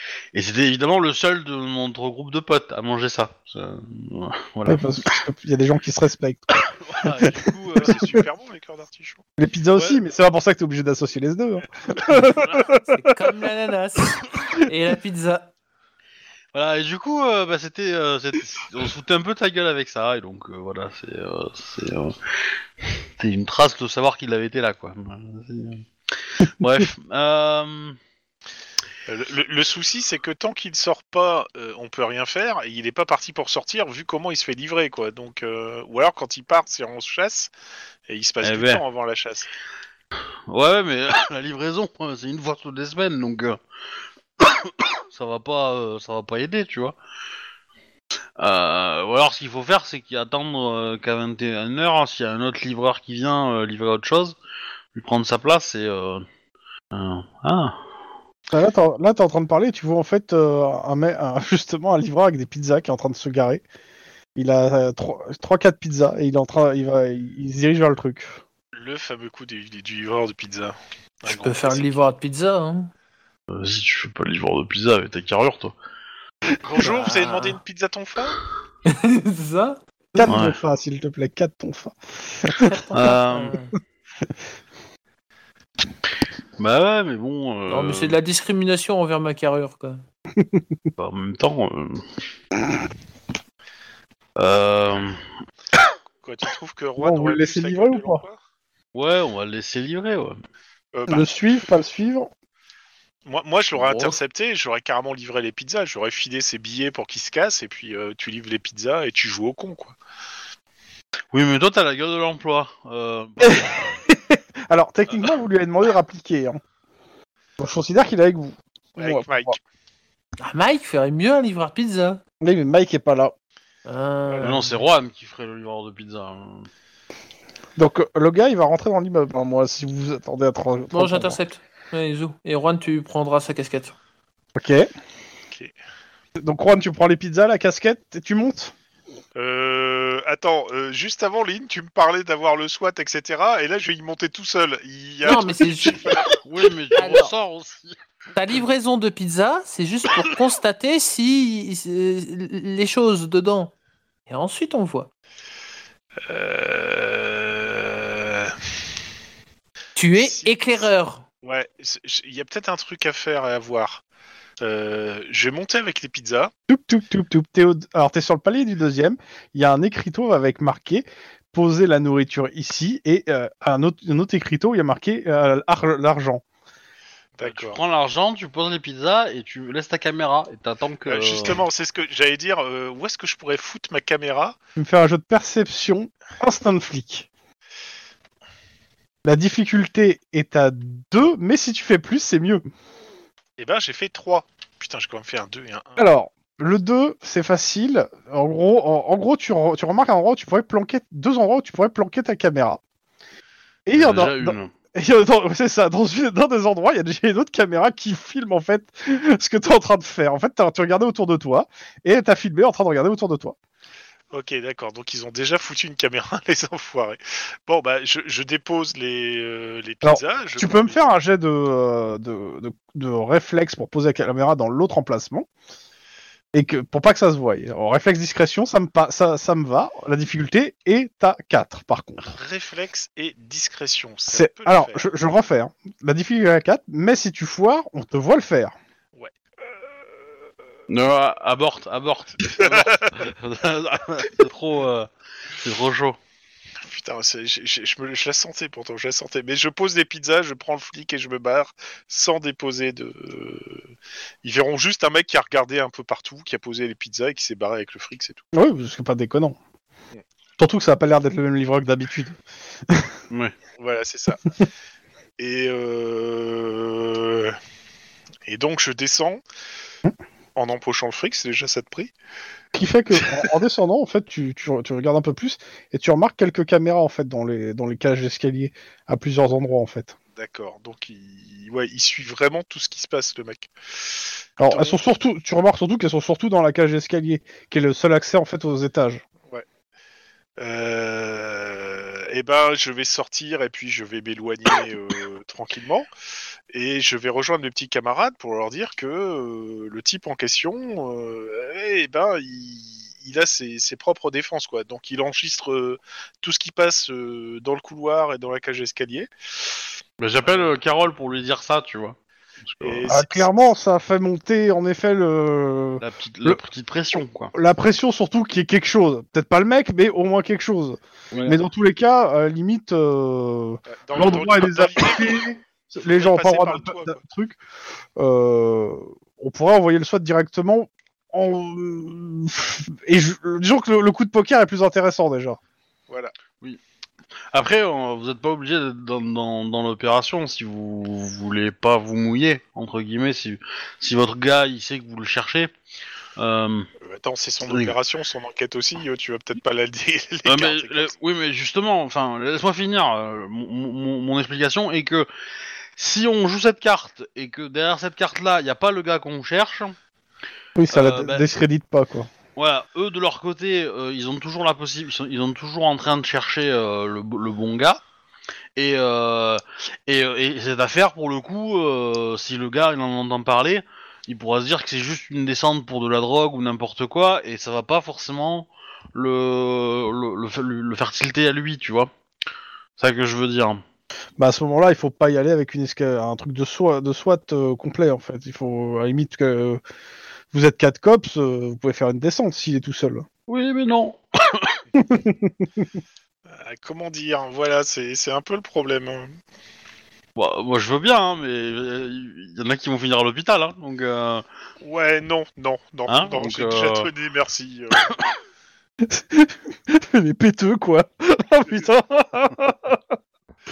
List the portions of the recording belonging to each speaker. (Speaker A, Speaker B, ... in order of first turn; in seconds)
Speaker A: 0.3-5.0, 6.7-8.2, 16.5-28.0, 38.4-38.8, 40.5-43.6, 44.4-47.0, 48.4-54.4, 54.9-56.2, 56.9-57.7, 73.5-75.7, 80.2-80.6, 82.9-83.5, 86.6-88.2, 91.0-92.0, 94.4-95.2, 98.9-100.4, 103.8-104.1, 111.3-113.9, 124.4-126.7, 146.4-147.9, 177.4-181.6, 203.9-204.7, 240.9-246.2, 310.2-313.1, 316.0-317.5, 321.3-321.6, 337.5-345.7, 346.4-346.9, 347.7-347.9, 350.4-355.3, 355.9-359.9, 360.9-361.4, 362.6-368.0, 368.8-382.1, 383.0-383.8, 393.5-394.8, 400.4-404.4, 406.1-407.1
Speaker B: 4.7-6.6, 9.4-12.8, 58.5-63.6, 64.3-68.4, 80.1-82.7, 90.3-90.6, 97.0-98.2, 101.1-102.3, 113.4-116.6, 117.6-119.5, 122.4-123.3, 127.8-131.4, 134.5-134.9, 136.4-138.7, 166.7-176.4, 184.8-187.3, 189.2-192.6, 196.0-202.8, 203.8-213.6, 220.0-225.5, 226.5-232.3, 234.3-238.7, 258.5-259.6, 260.6-263.1, 272.7-280.1, 284.6-289.2, 313.1-316.6, 317.5-327.6, 328.1-335.6, 360.8-362.3, 384.4-389.8, 390.5-393.2, 394.9-395.7, 409.0-413.0
Speaker C: 7.8-9.2, 29.1-37.5, 38.1-39.5, 68.7-72.0, 76.6-78.4, 96.2-98.4, 100.9-101.3, 103.2-110.0, 119.0-119.6, 124.3-124.6, 139.3-146.3, 156.2-158.6, 160.2-160.8, 161.4-164.0, 164.6-166.5, 177.3-177.8, 181.1-184.6, 193.6-196.1, 214.3-221.0, 232.2-235.0, 242.5-243.3, 246.8-253.8, 254.4-258.4, 263.8-264.5, 265.4-267.6, 268.4-269.4, 270.6-272.1, 280.3-285.0, 290.6-296.1, 296.7-309.8, 310.4-310.8, 312.8-313.7, 323.9-325.5, 326.0-327.2, 336.1-336.3, 347.0-351.1, 396.5-399.3, 404.8-408.1
Speaker D: 12.8-15.5, 71.2-72.9, 76.8-77.6, 78.8-79.8, 82.6-83.7, 87.7-90.0, 120.4-122.2, 123.8-124.8, 130.9-133.9, 145.2-146.2, 146.9-147.3, 148.3-153.7, 154.3-155.1, 159.9-161.2